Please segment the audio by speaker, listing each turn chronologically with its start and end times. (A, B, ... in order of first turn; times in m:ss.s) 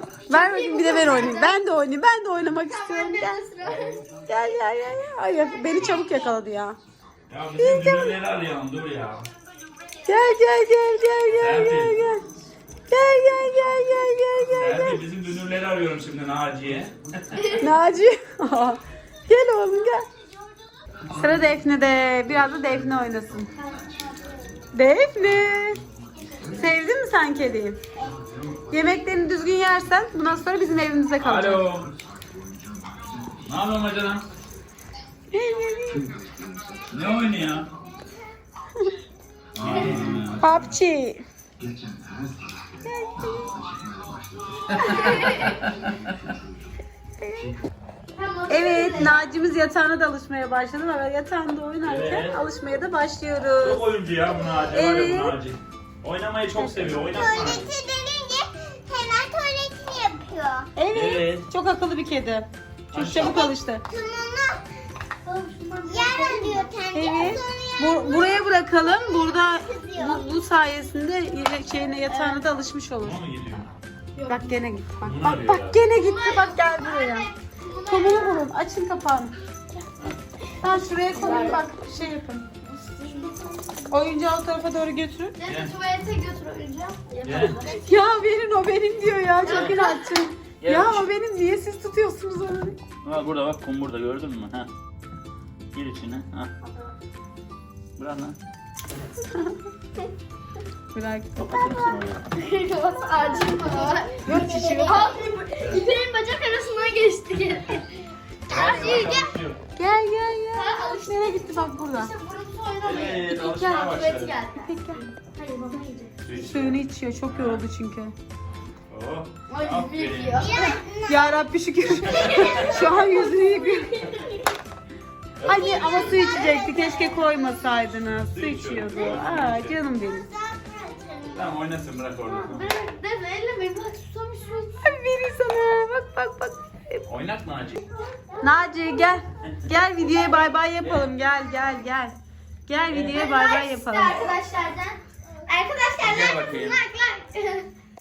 0:00.3-0:03.3 A
0:00.3-0:01.6 B
0:02.7-0:03.9 B
0:03.6-0:04.2 C
0:04.3-0:06.8 A
0:07.3-0:09.3 C
0:07.6-0:08.2 A
0:10.0-0:12.2 A
0:11.3-0:12.0 C
0:12.9-0:15.0 A
0:14.6-0:17.4 C
0:17.6-0:20.0 A
0:21.1-0:23.5 A
0:23.5-0:24.4 B
0:24.7-0:25.8 A
0:26.5-0:27.8 A
0:28.7-0:31.7 A
0:31.2-0:31.9 C
0:33.3-0:34.2 C
0:35.3-0:36.1 A
0:36.8-0:37.7 C
0:39.6-0:40.6 C
0:39.7-0:40.1 B
0:40.4-0:41.2 A
0:42.8-0:43.6 A
0:44.7-0:45.9 C
0:44.7-0:45.6 B
0:47.2-0:47.6 A
0:48.1-0:49.2 B
0:48.5-0:53.8 A
0:51.8-0:52.4 C
0:53.6-0:57.7 C
0:54.7-0:55.4 A
0:56.5-0:57.1 A
0:57.0-1:00.7 D
1:00.8-1:03.8 A
1:00.9-1:01.5 C
1:02.9-1:03.4 C
1:03.2-1:04.6 D
1:05.2-1:06.7 B
1:05.9-1:10.3 D
1:06.9-1:13.2 A
1:12.1-1:12.4 B
1:13.0-1:13.7 C
1:14.2-1:14.6 B
1:14.3-1:17.3 A
1:15.0-1:15.8 C
1:15.9-1:18.4 B
1:17.9-1:19.3 A
1:20.6-1:22.4 A
1:21.1-1:21.6 B
1:22.6-1:23.9 B
1:23.9-1:25.3 A
1:25.4-1:28.0 B
1:25.4-1:25.7 C
1:27.2-1:27.6 C
1:27.9-1:32.8 A
1:29.4-1:30.1 B
1:29.4-1:29.8 C
1:30.6-1:31.1 C
1:33.0-1:34.7 C
1:35.7-1:36.5 C
1:38.0-1:38.4 C
1:40.9-1:42.0 A
1:41.4-1:42.2 C
1:42.4-1:47.9 B
1:44.2-1:45.1 A
1:44.2-1:45.3 D
1:48.5-1:49.3 B
1:48.5-1:49.6 C
1:48.5-1:49.0 A
1:49.7-1:52.1 A
1:50.5-1:56.1 B
1:52.8-1:54.3 C
1:54.6-1:55.0 A
1:56.2-1:57.6 C
1:56.3-1:58.1 A
1:58.9-2:00.5 C
1:59.5-2:01.2 B
2:00.4-2:01.4 D
2:01.1-2:03.9 A
2:02.0-2:04.4 B
2:02.1-2:02.8 C
2:05.4-2:06.3 C
2:05.4-2:10.3 A
2:05.5-2:07.5 B
2:05.7-2:07.3 D
2:08.3-2:09.8 C
2:09.0-2:09.2 D
2:10.0-2:11.5 D
2:11.3-2:12.7 C
2:12.2-2:14.8 B
2:14.8-2:17.0 A
2:17.1-2:17.8 C
2:18.4-2:22.2 A
2:20.8-2:21.2 C
2:22.7-2:24.3 A
2:22.9-2:23.3 C
2:23.1-2:27.7 B
2:26.0-2:26.8 C